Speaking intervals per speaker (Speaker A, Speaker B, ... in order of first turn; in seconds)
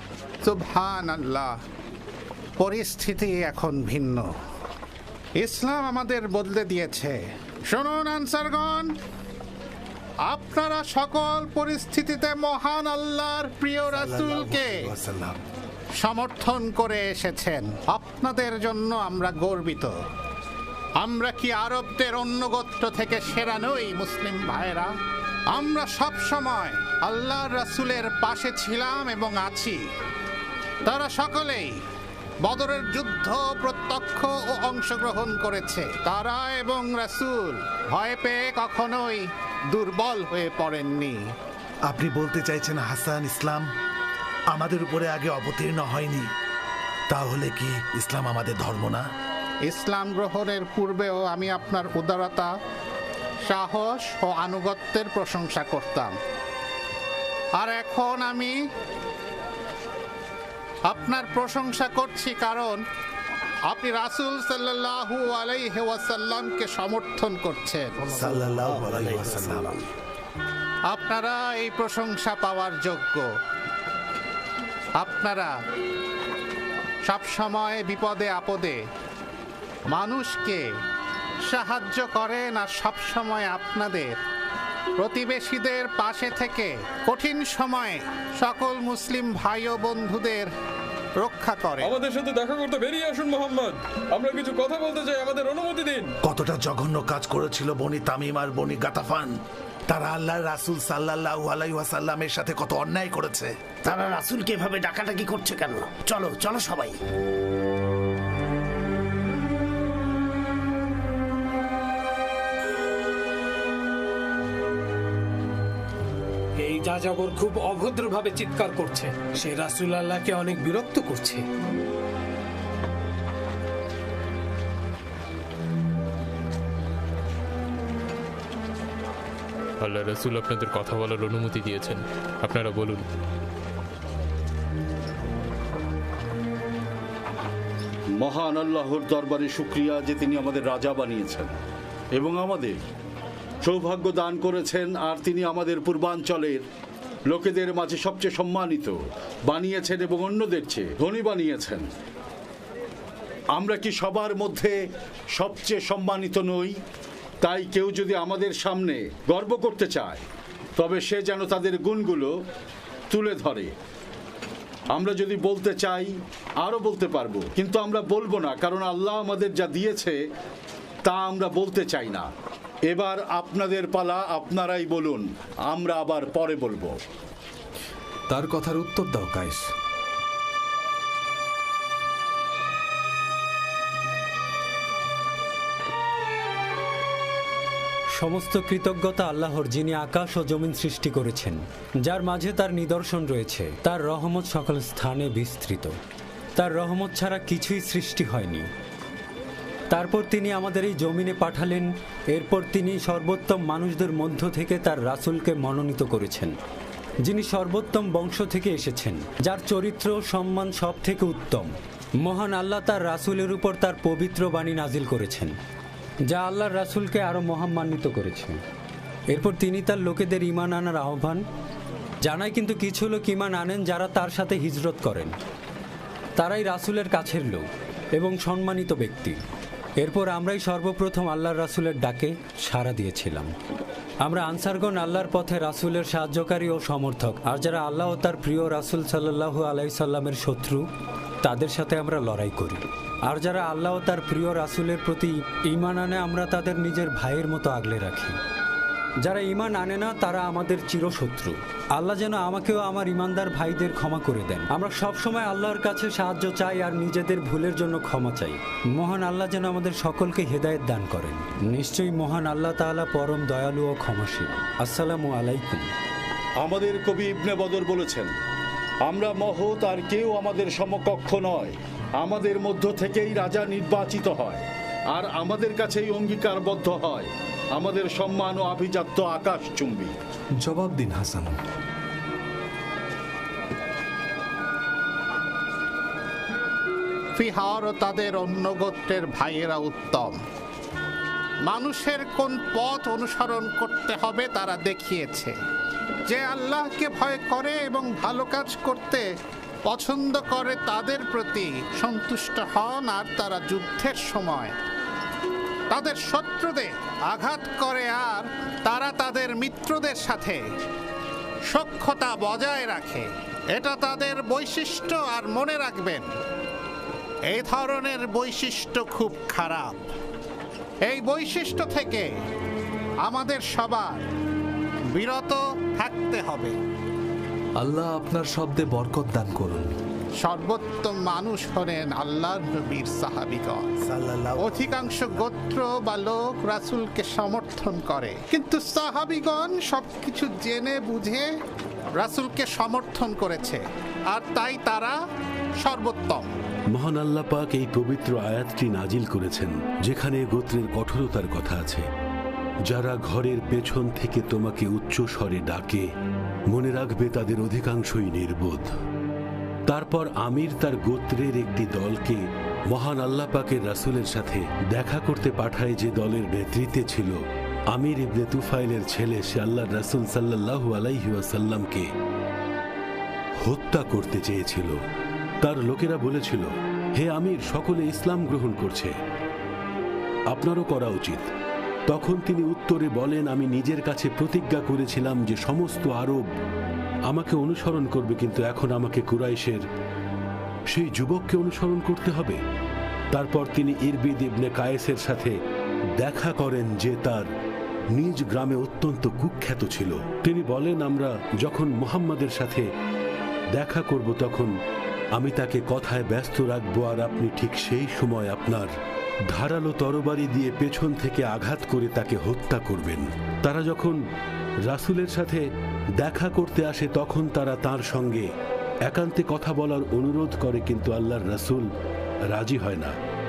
Speaker A: 0.4-1.5, 2.6-4.3, 5.4-7.2, 7.7-8.9, 10.3-14.8, 16.0-19.9, 21.0-24.9, 25.5-29.8, 30.9-31.7, 32.4-41.2, 49.7-52.5, 53.5-56.1, 57.6-58.5, 60.9-62.8, 63.7-67.9, 70.9-73.2, 75.0-75.5, 77.1-78.8, 79.9-80.6, 81.5-84.2, 85.0-90.5, 91.2-92.0, 287.4-290.4, 291.7-295.5, 296.3-299.2, 299.9-304.7, 305.9-310.6, 311.7-316.3, 317.5-320.1, 321.1-322.3, 323.2-324.2, 325.1-326.7, 330.4-333.9, 334.6-341.4, 342.2-343.8, 344.3-345.1, 345.8-346.4
Speaker B: 13.9-15.4, 41.9-43.6, 44.5-46.3, 47.1-49.0, 68.0-69.7, 96.2-99.3, 99.9-103.5, 334.0-335.5
Speaker C: 68.1-69.8, 103.8-107.0
Speaker D: 92.1-92.5, 94.2-96.0
Speaker E: 116.6-121.4
Speaker F: 129.8-133.0
Speaker G: 138.2-141.5, 142.2-142.8, 143.6-146.6, 147.3-149.0, 149.5-151.8, 153.6-154.7, 155.3-156.7, 157.4-160.2, 160.8-162.4, 163.1-163.7, 164.9-170.2, 171.1-172.3, 172.9-176.9, 266.6-268.3, 269.1-280.1
Speaker H: 178.3-179.6, 280.6-281.5, 327.8-329.9
Speaker I: 188.2-195.9, 196.6-198.7, 199.9-206.5, 207.2-211.7, 212.2-215.5, 216.3-218.6, 219.3-221.4, 222.2-225.3, 226.4-227.6, 228.2-229.4, 230.0-233.5, 234.2-240.9, 241.4-248.4, 249.2-265.9
Speaker J: 346.9-352.1, 352.9-356.1, 356.7-358.9, 359.9-367.4, 367.9-372.1, 373.6-375.0, 375.6-379.1, 380.5-381.5, 382.1-386.4, 387.3-389.8, 390.9-392.6, 393.3-395.6, 396.2-397.5, 398.1-402.9, 403.7-404.7, 405.4-408.9, 409.5-414.2, 414.9-415.6, 416.2-418.5, 419.1-421.9, 422.5-423.1